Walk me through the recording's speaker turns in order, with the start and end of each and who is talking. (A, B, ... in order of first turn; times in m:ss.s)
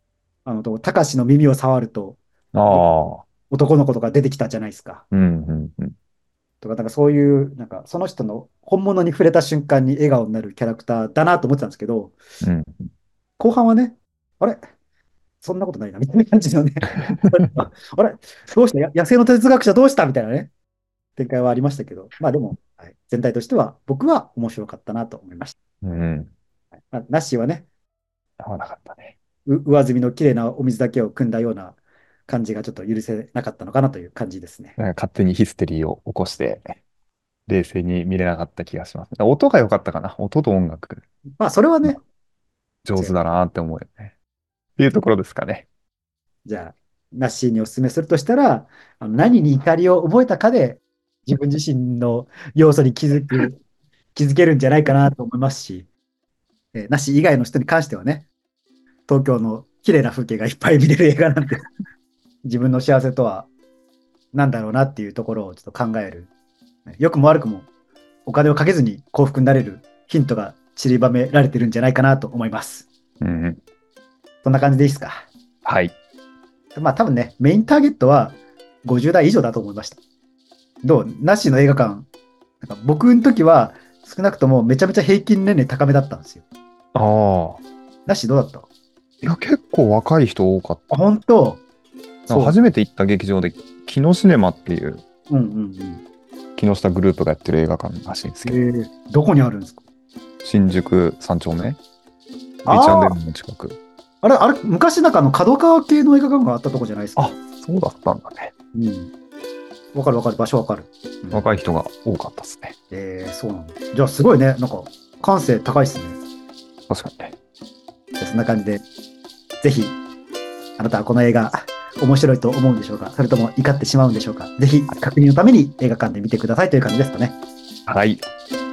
0:00.4-0:02.8 A
0:02.5-0:03.2 B
0:03.5-0:05.0 A
0:05.1-0:05.9 B
0:06.6-0:12.1 A
0:12.4-0:12.9 B
0:13.4-0:14.6 A
0:15.4-0:20.5 A
0:17.1-0:17.4 B
0:21.2-0:25.6 A
0:25.8-0:26.3 B
0:26.9-0:27.6 A
0:28.4-0:29.1 B
0:29.4-0:34.8 A
0:34.8-0:36.7 B
0:37.5-0:41.0 B
0:41.4-0:42.0 A
0:42.8-0:44.1 B
0:44.8-0:45.6 B
0:46.4-0:53.6 A
0:54.1-0:55.9 A
0:56.7-0:58.2 A
0:59.1-1:01.6 A
1:02.4-1:03.5 A
1:04.3-1:06.3 A
1:06.9-1:07.7 A
1:08.2-1:12.9 A
1:13.2-1:13.6 B
1:14.4-1:15.3 A
1:15.6-1:15.9 B
1:16.7-1:20.0 A
1:20.8-1:22.1 A
1:22.6-1:26.4 A
1:26.9-1:27.6 B
1:28.1-1:28.7 A
1:29.2-1:30.8 B
1:30.9-1:31.6 A
1:32.3-1:32.6 A
1:32.3-1:35.0 B
1:35.3-1:36.0 A
1:36.6-1:38.6 B
1:38.4-1:39.8 A
1:40.4-1:41.8 B
1:42.6-1:43.8 B
1:42.6-1:43.2 A
1:44.2-1:47.3 A
1:47.2-1:48.5 B
1:48.7-1:49.1 A
1:49.9-1:51.4 A
1:51.3-1:52.7 B
1:52.9-1:56.2 A
1:56.9-1:57.4 B
1:58.2-1:58.8 A
1:59.6-2:00.0 A
2:00.8-2:07.4 A
2:07.8-2:08.2 B